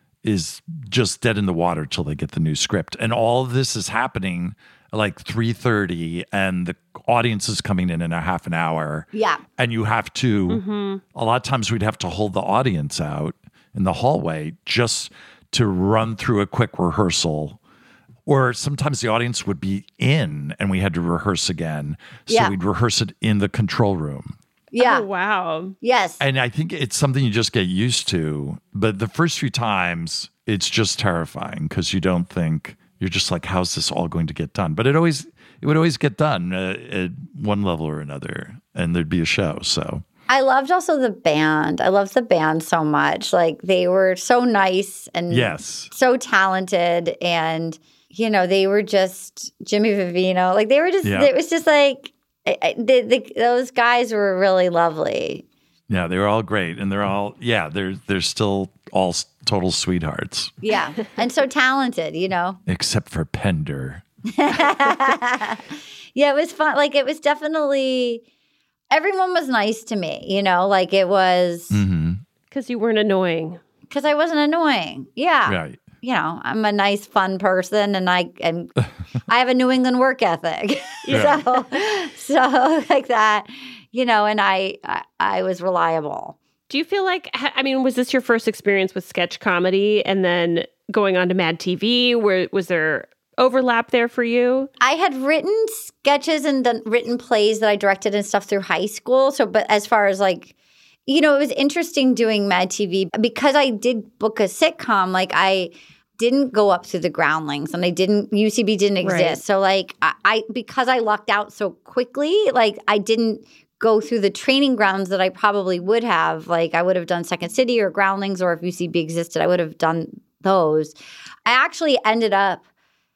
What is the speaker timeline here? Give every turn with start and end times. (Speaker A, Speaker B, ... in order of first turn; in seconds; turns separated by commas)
Speaker A: 0.2-10.6, Speaker B: 9.1-9.4, Speaker C: 10.5-11.0, Speaker A: 11.1-17.6, Speaker A: 18.2-24.4, Speaker B: 22.3-22.5, Speaker B: 24.7-25.1, Speaker C: 24.8-25.7, Speaker B: 25.8-26.2, Speaker A: 26.2-40.0, Speaker B: 40.3-55.4, Speaker A: 45.3-45.9, Speaker A: 51.0-51.3, Speaker A: 55.9-60.5, Speaker B: 60.6-62.6, Speaker A: 62.7-64.0, Speaker B: 64.3-65.6, Speaker B: 66.1-68.2, Speaker B: 68.9-71.8, Speaker A: 71.7-72.2, Speaker C: 72.5-73.6, Speaker B: 73.9-86.4, Speaker A: 75.5-75.9, Speaker C: 81.0-81.6, Speaker A: 81.1-81.4, Speaker C: 86.7-94.7, Speaker B: 94.8-100.5, Speaker B: 101.1-122.6, Speaker C: 109.0-109.4